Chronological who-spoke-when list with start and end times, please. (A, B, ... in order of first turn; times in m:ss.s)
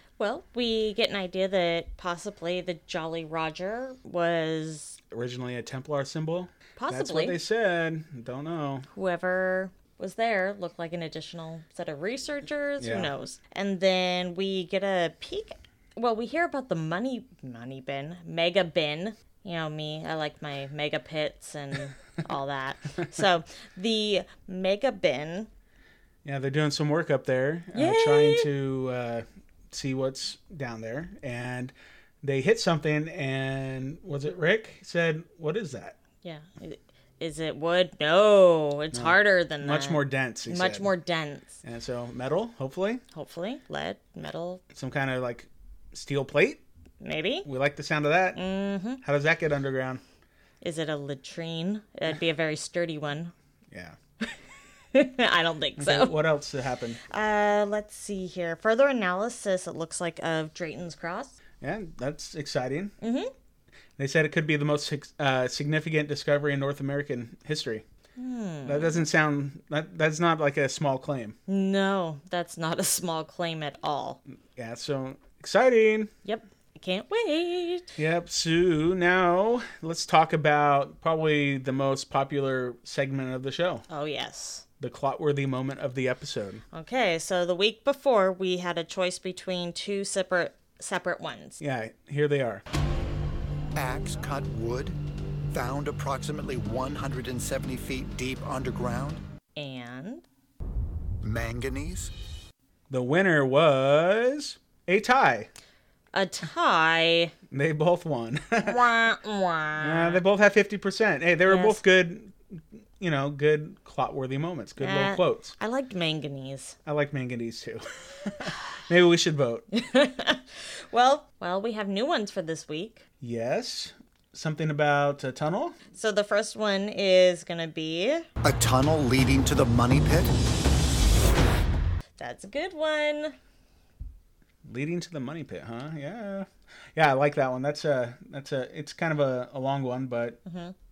0:00.2-0:05.0 A
0:05.1-0:08.9 B
0:06.8-0:07.4 A
0:08.9-0:25.5 A
0:12.8-0:13.1 B
0:26.2-0:36.0 B
0:27.7-0:28.5 A
0:36.2-0:41.6 A
0:38.9-0:40.9 B
0:41.6-0:43.0 B
0:43.1-0:44.6 A
0:44.7-0:46.6 B
0:47.0-0:47.5 A
0:47.4-0:48.4 B
0:48.4-0:49.0 A
0:49.0-0:50.0 B
0:50.6-0:53.3 A
0:53.7-0:54.0 B
0:54.9-0:56.2 A
0:55.8-0:57.0 B
0:57.1-1:01.4 A
1:01.6-1:02.9 B
1:03.0-1:03.3 A
1:04.0-1:07.8 B
1:08.2-1:09.1 A
1:08.6-1:11.4 B
1:11.5-1:14.2 A
1:14.6-1:16.1 B
1:16.2-1:17.9 A
1:18.0-1:23.9 B
1:23.9-1:24.6 A
1:24.8-1:26.6 B
1:26.7-1:31.6 A
1:31.6-1:32.6 B
1:33.7-1:35.0 C
1:35.5-1:39.2 C
1:39.6-1:40.2 A
1:41.2-1:42.1 C
1:42.9-1:45.5 B
1:46.1-1:47.3 A
1:47.5-1:48.8 B
1:48.6-1:50.2 A
1:49.8-1:55.6 B
1:51.5-1:51.8 A
1:54.8-1:56.8 A
1:56.9-1:59.6 B
1:59.7-2:03.0 A
2:03.2-2:05.8 B
2:06.0-2:08.3 A
2:08.4-2:10.3 C
2:12.2-2:13.4 A
2:14.7-2:20.4 B
2:20.5-2:20.7 A